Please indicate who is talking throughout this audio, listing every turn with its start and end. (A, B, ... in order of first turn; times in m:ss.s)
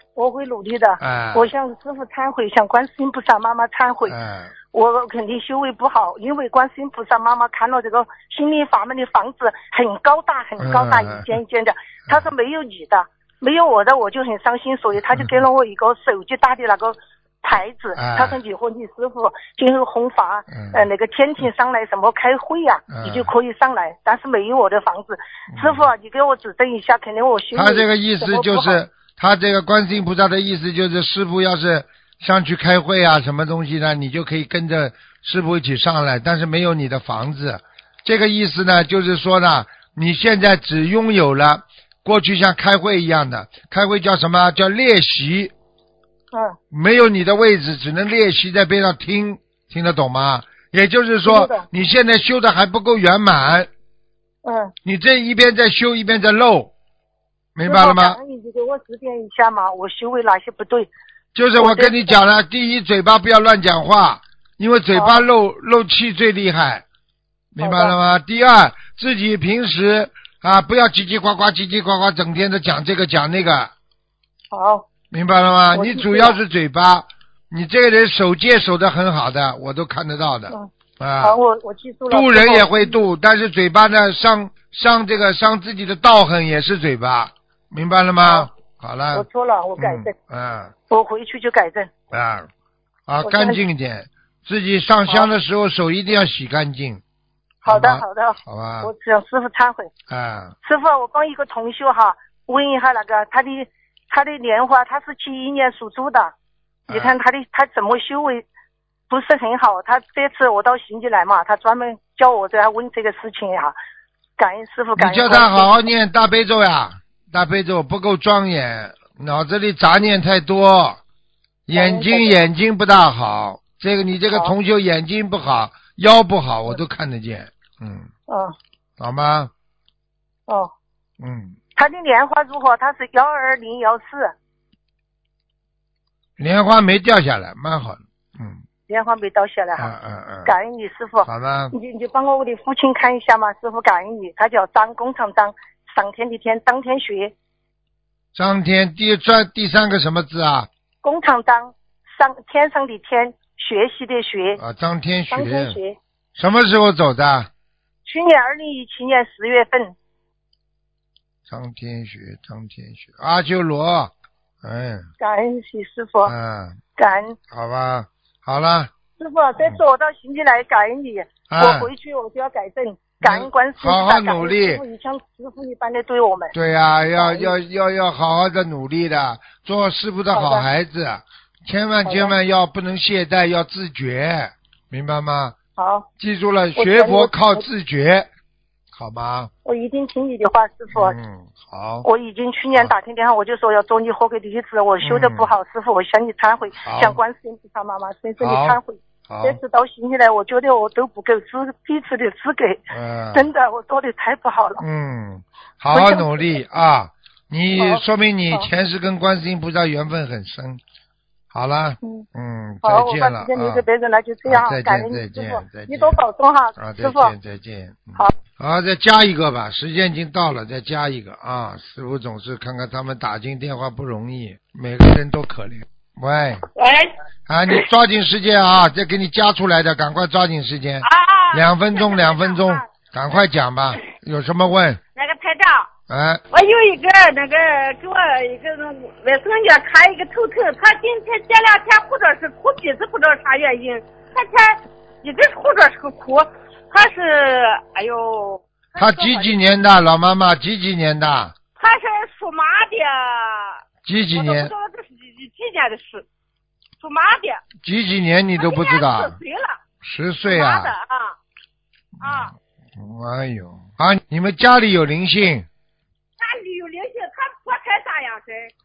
0:00.2-0:04.2 A
0:01.0-0:01.5 B
0:04.1-0:04.5 B
0:04.7-0:28.8 A
0:10.6-0:11.3 B
0:18.0-0:18.4 B
0:20.5-0:20.8 B
0:22.9-0:23.3 B
0:25.5-0:25.9 B
0:27.6-0:45.5 B
0:46.3-0:46.6 A
0:46.7-0:53.7 B
0:51.2-0:51.7 A
0:54.4-0:54.7 A
0:54.8-0:56.7 B
0:57.6-0:58.2 B
0:57.6-1:00.9 A
1:01.4-1:06.8 B
1:01.6-1:02.1 A
1:04.9-1:05.2 A
1:07.5-1:13.7 B
1:07.6-1:08.0 A
1:14.5-1:14.9 A
1:15.1-1:21.4 B
1:15.7-1:16.4 A
1:21.2-1:23.0 A
1:22.1-1:29.3 B
1:28.2-1:28.5 A
1:29.1-1:30.1 A
1:29.8-1:30.7 B
1:30.9-1:31.9 A
1:32.1-1:32.5 B
1:33.1-1:37.0 B
1:33.2-1:33.6 A
1:37.6-1:38.9 B
1:37.7-1:39.9 A
1:40.1-1:40.5 B
1:40.6-1:46.3 A
1:46.9-1:47.2 B
1:46.9-1:48.5 A
1:49.1-1:53.7 A
1:54.4-1:55.8 A
1:55.0-2:01.0 B
2:01.7-2:08.1 B
2:01.7-2:02.4 A
2:08.3-2:08.6 A
2:09.0-2:09.5 B
2:11.2-2:11.6 B
2:11.8-2:14.3 A
2:16.4-2:18.6 B
2:18.9-2:19.9 A
2:19.8-2:20.5 B
2:20.4-2:27.3 A
2:21.2-2:21.7 B
2:28.4-2:30.7 B
2:31.0-2:34.6 A
2:34.6-2:35.8 B
2:35.3-2:36.0 A
2:36.4-2:37.5 B
2:38.0-2:39.9 A
2:41.5-2:45.1 B
2:45.2-2:46.3 A
2:46.2-2:46.8 B
2:47.0-2:47.4 A
2:47.5-2:48.9 B
2:49.2-2:56.6 A
2:51.5-2:51.9 B
2:53.2-2:54.8 B
2:56.5-3:05.6 B
2:57.2-2:57.5 A
3:00.3-3:00.7 A
3:02.0-3:02.4 A
3:05.8-3:06.1 A
3:06.2-3:08.3 B
3:06.8-3:07.6 A
3:08.9-3:09.5 B
3:09.6-3:11.2 A
3:10.9-3:12.1 B
3:12.0-3:22.8 A
3:15.0-3:15.5 B
3:16.8-3:17.2 B
3:18.4-3:19.6 B
3:22.9-3:23.5 B
3:23.3-3:24.8 A
3:24.8-3:30.8 B
3:25.9-3:26.6 A
3:27.8-3:28.7 A
3:31.5-3:33.8 B
3:32.8-3:37.3 A
3:34.5-3:36.2 B
3:36.8-3:46.7 B
3:46.8-3:47.2 C
3:47.5-3:55.0 B
3:51.0-3:52.9 C
3:55.2-3:55.9 C
3:56.1-3:56.4 B
3:56.5-4:09.6 C
4:09.0-4:11.6 B
4:11.8-4:13.8 C
4:14.1-4:14.7 B
4:14.3-4:16.3 C
4:17.0-4:17.6 C
4:17.8-4:19.4 B
4:18.6-4:19.8 C
4:20.0-4:20.9 B
4:20.5-4:21.4 C
4:22.2-4:22.5 C
4:22.2-4:25.7 B
4:26.4-4:28.7 C